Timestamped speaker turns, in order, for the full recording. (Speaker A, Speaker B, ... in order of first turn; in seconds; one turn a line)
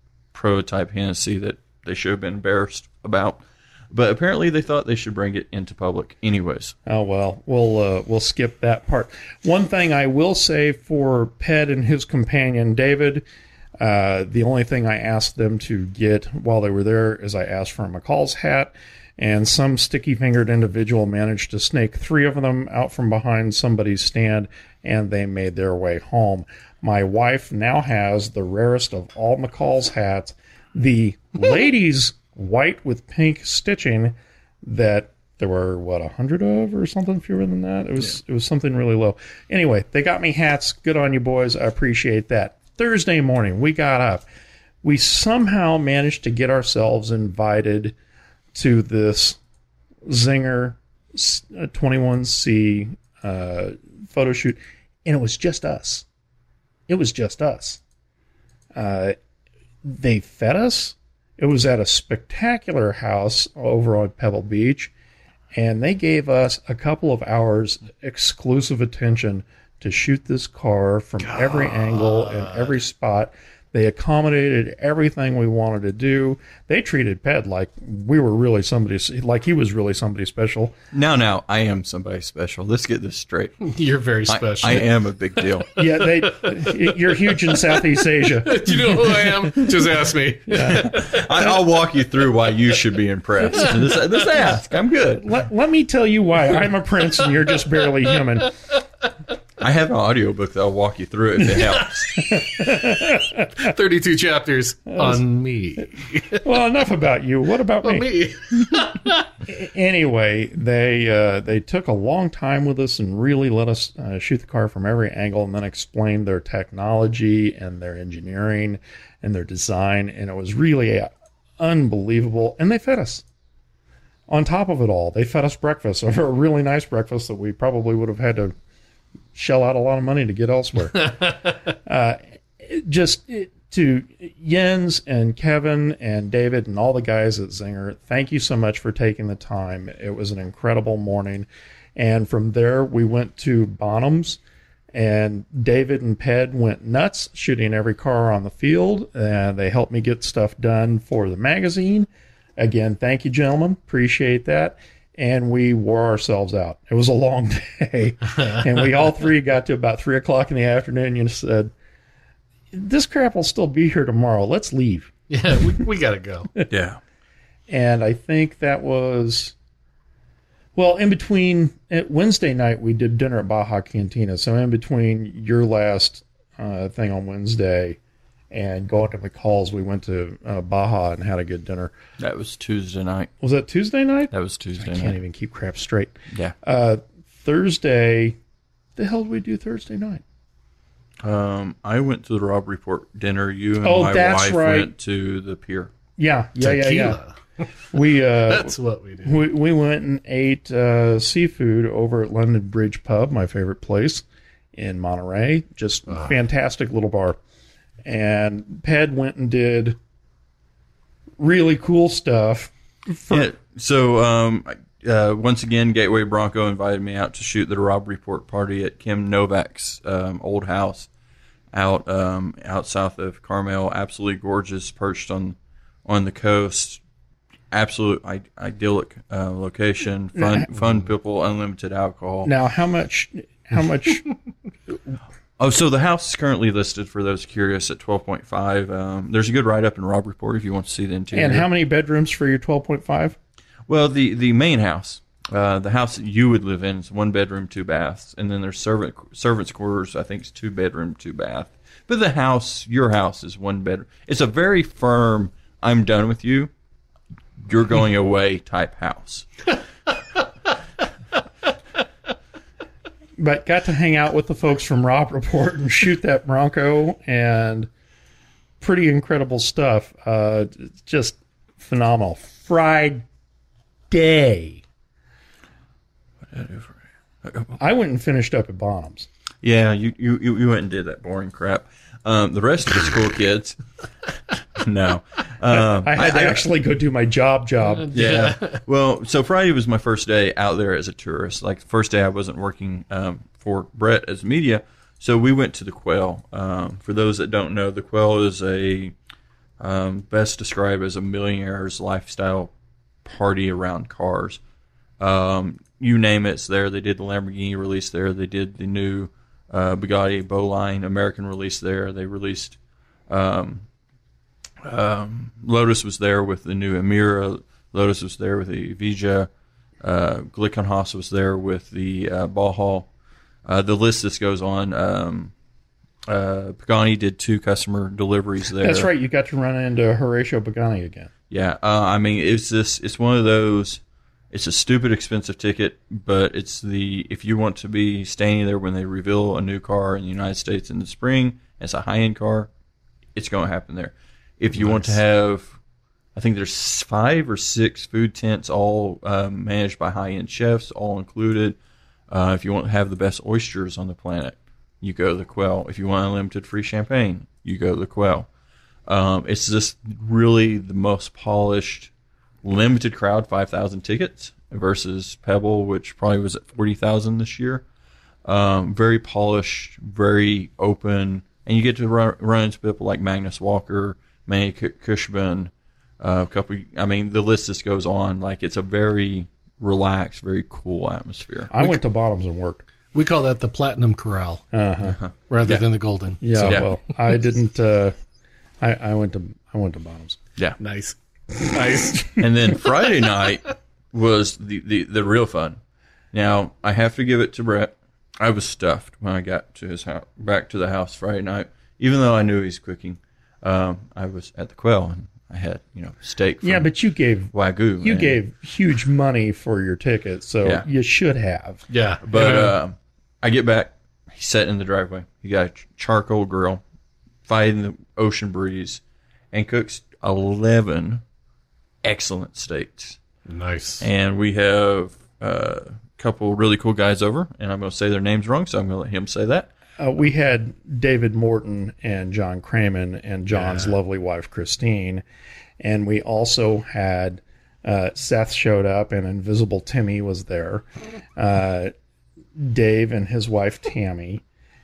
Speaker A: 0.3-6.7
Speaker B: 6.9-13.2
Speaker B: 13.8-44.2
Speaker B: 44.8-48.0
Speaker B: 48.5-49.4
Speaker B: 50.1-56.0
Speaker B: 56.9-57.8
Speaker B: 58.7-59.1
Speaker B: 59.8-64.9
Speaker B: 65.5-80.8
Speaker C: 71.2-72.8
Speaker A: 80.9-83.6
Speaker C: 83.6-84.9
Speaker A: 84.3-85.7
Speaker B: 85.8-89.7
Speaker C: 85.8-86.8
Speaker C: 87.5-91.3
Speaker B: 90.5-91.5
Speaker A: 90.7-95.3
Speaker B: 95.2-98.5
Speaker A: 99.6-102.1
Speaker B: 102.2-103.7
Speaker C: 103.6-106.4
Speaker B: 104.9-105.2
Speaker B: 106.3-108.1
Speaker C: 107.8-109.3
Speaker B: 109.5-123.2
Speaker B: 124.3-128.5
Speaker B: 129.3-144.4
Speaker B: 144.9-161.7
Speaker B: 162.7-165.8
Speaker C: 165.3-166.5
Speaker A: 166.7-167.0
Speaker B: 167.7-169.5
Speaker B: 170.8-178.0
Speaker B: 178.5-181.9
Speaker A: 182.2-183.3
Speaker B: 183.4-188.4
Speaker A: 184.3-185.2
Speaker B: 189.0-190.2
Speaker A: 191.2-195.9
Speaker B: 193.8-194.9
Speaker B: 196.2-197.2
Speaker C: 196.6-197.3
Speaker B: 197.9-204.2
Speaker C: 198.5-199.5
Speaker B: 204.7-207.4
Speaker B: 208.0-210.0
Speaker B: 211.4-213.5
Speaker A: 213.3-221.1
Speaker A: 221.7-227.0
Speaker A: 227.7-232.5
Speaker B: 230.4-230.7
Speaker B: 232.4-234.2
Speaker A: 235.6-241.7
Speaker B: 241.3-243.4
Speaker A: 243.9-256.7
Speaker A: 257.6-259.5
Speaker B: 263.4-267.9
Speaker B: 268.8-273.2
Speaker B: 274.1-274.8
Speaker A: 276.5-277.8
Speaker B: 277.8-279.3
Speaker A: 279.6-283.8
Speaker A: 284.8-286.6
Speaker B: 285.9-288.1
Speaker C: 288.0-288.8
Speaker A: 288.1-299.1
Speaker A: 299.8-302.7
Speaker A: 303.2-304.6
Speaker A: 305.2-312.8
Speaker A: 313.3-313.8
Speaker A: 314.8-319.5
Speaker A: 320.0-323.1
Speaker A: 323.6-325.5
Speaker A: 326.3-329.1
Speaker B: 328.8-331.3
Speaker A: 331.5-342.7
Speaker A: 343.3-345.8
Speaker A: 346.3-351.8
Speaker A: 352.3-358.5
Speaker A: 359.1-362.1
Speaker A: 362.6-367.8
Speaker A: 368.4-381.7
Speaker B: 381.7-382.8
Speaker C: 383.1-384.6
Speaker B: 384.7-385.2
Speaker A: 385.0-385.8
Speaker C: 385.5-386.9
Speaker B: 386.4-388.1
Speaker A: 386.6-386.9
Speaker B: 388.8-390.4
Speaker C: 390.8-392.4
Speaker A: 392.4-395.8
Speaker A: 396.3-406.9
Speaker B: 406.6-411.8
Speaker A: 407.5-408.4
Speaker C: 411.9-412.7
Speaker A: 412.2-416.8
Speaker A: 417.4-419.0
Speaker A: 419.5-421.2
Speaker A: 422.0-423.2
Speaker C: 423.5-424.1
Speaker A: 424.0-429.7
Speaker B: 430.0-435.2
Speaker B: 435.8-441.9
Speaker B: 442.6-444.4